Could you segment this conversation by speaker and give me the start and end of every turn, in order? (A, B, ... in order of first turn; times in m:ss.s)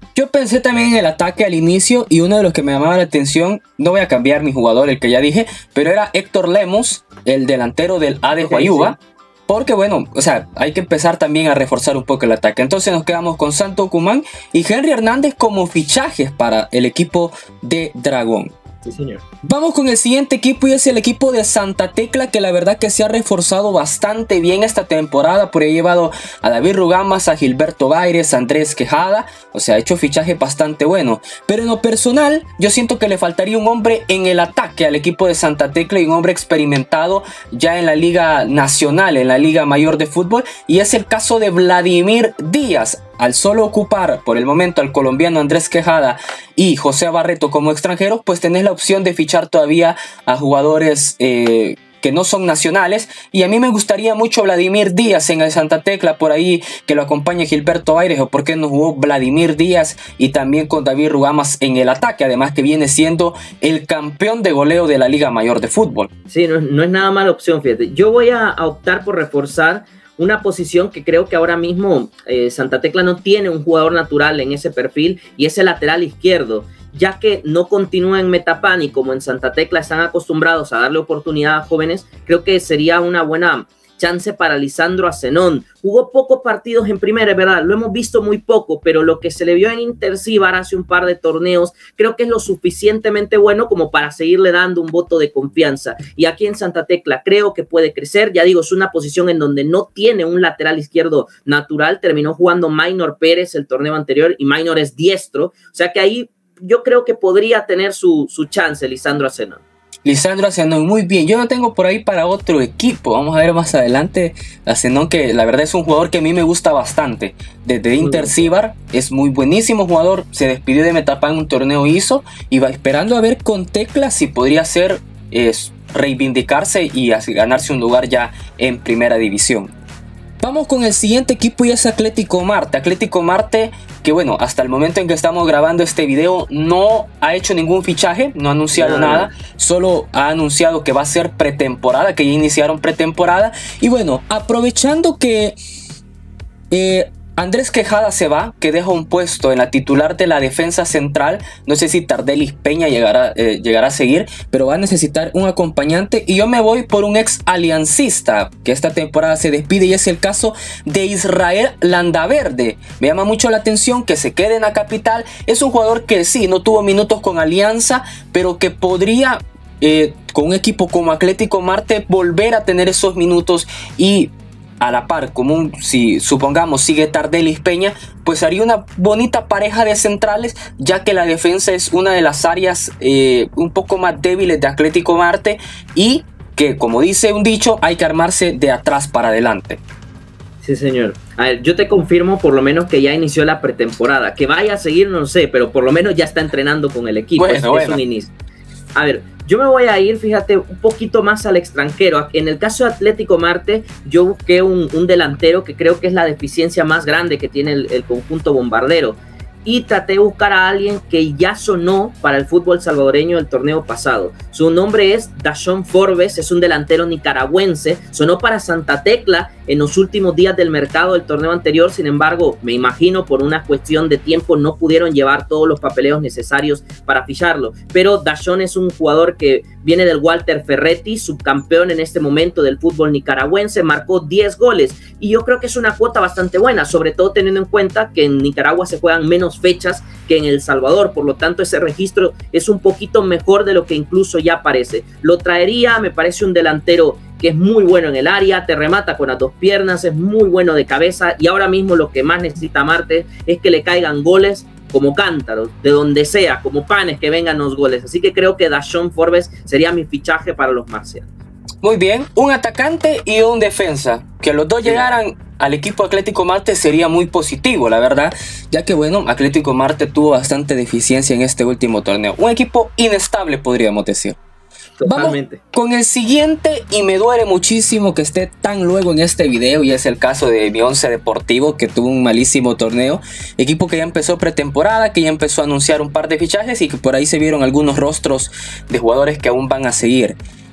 0:00.2-0:09.0 A
0:08.4-0:09.0 B
0:09.5-0:18.5 A
0:18.8-0:19.2 B
0:19.4-1:06.1 A
1:06.3-1:49.6 B
1:50.0-2:09.7 A
1:58.0-1:58.5 B
2:10.4-2:25.6 A
2:18.8-2:19.3 B
2:26.7-3:09.8 A
3:10.6-3:18.3 B
3:17.4-3:18.0 A
3:18.9-4:21.3 B
4:21.8-4:34.4 A
4:35.0-4:35.6 B
4:35.0-4:50.4 A